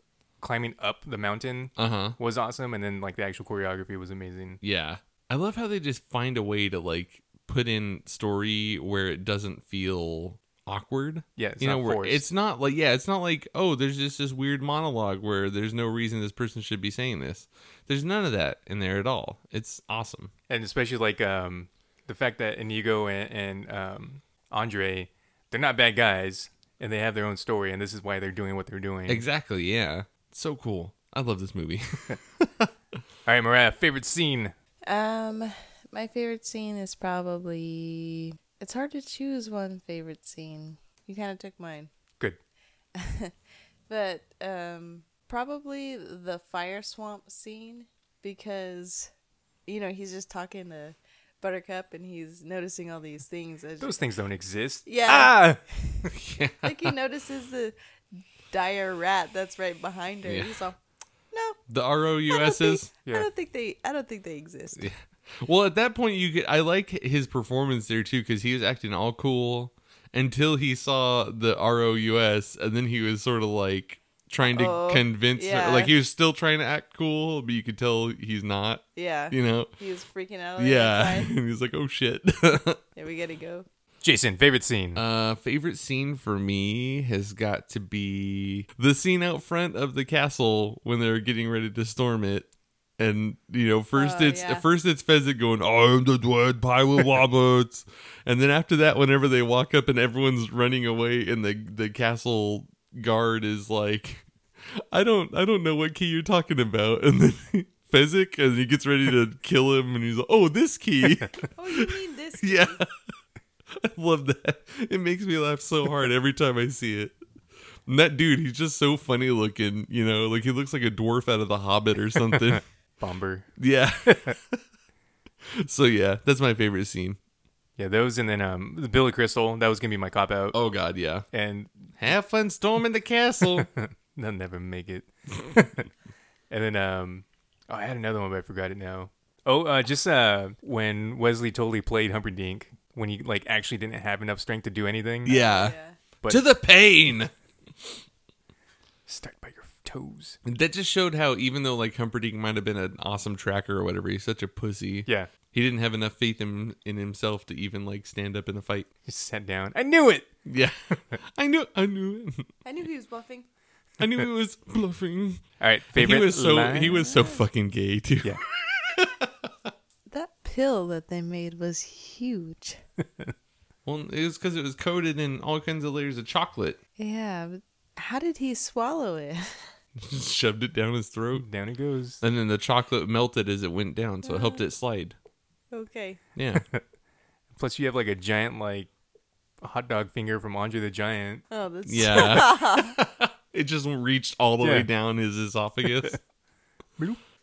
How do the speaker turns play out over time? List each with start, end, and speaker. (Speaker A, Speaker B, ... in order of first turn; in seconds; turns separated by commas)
Speaker A: 0.4-4.6, Speaker B: 1.8-2.2, Speaker B: 4.6-20.3, Speaker A: 11.4-12.2, Speaker A: 20.5-29.2, Speaker B: 29.1-32.7, Speaker A: 33.2-34.5, Speaker C: 34.9-41.9, Speaker C: 43.0-43.3, Speaker C: 43.9-49.1, Speaker C: 49.7-54.0, Speaker A: 53.8-55.6, Speaker C: 54.9-55.4, Speaker B: 56.1-56.9, Speaker C: 56.6-60.8, Speaker B: 60.2-60.6, Speaker C: 61.3-61.6, Speaker B: 61.7-62.9, Speaker C: 62.3-64.8, Speaker B: 64.8-79.7, Speaker C: 74.4-76.0, Speaker C: 79.0-81.3, Speaker B: 80.6-82.8, Speaker C: 83.0-83.7, Speaker A: 84.0-85.0, Speaker B: 84.9-112.9, Speaker C: 93.9-94.6, Speaker C: 111.5-112.8, Speaker B: 113.8-117.2, Speaker B: 117.8-122.6, Speaker A: 122.4-123.5, Speaker B: 123.6-124.6, Speaker A: 124.1-124.3, Speaker B: 125.4-127.2, Speaker A: 127.8-130.6, Speaker B: 130.5-131.2, Speaker A: 131.3-131.9, Speaker B: 132.0-133.7, Speaker A: 133.6-135.9, Speaker A: 136.5-145.4, Speaker B: 145.2-145.7, Speaker C: 145.3-146.0, Speaker B: 146.2-147.3, Speaker A: 149.1-150.4, Speaker B: 150.4-158.9, Speaker A: 159.1-160.3, Speaker B: 160.4-162.5, Speaker C: 162.6-163.5, Speaker B: 164.0-169.5, Speaker A: 165.6-167.1, Speaker C: 167.0-167.4, Speaker C: 170.1-172.8, Speaker B: 173.8-176.8, Speaker C: 177.0-179.7, Speaker B: 180.0-181.4, Speaker A: 181.3-182.2, Speaker B: 182.2-185.2, Speaker C: 184.2-184.7, Speaker C: 185.7-186.2, Speaker B: 186.3-186.6, Speaker A: 187.6-188.9, Speaker A: 189.6-191.4, Speaker C: 191.5-193.0, Speaker B: 191.8-196.2, Speaker A: 194.6-194.9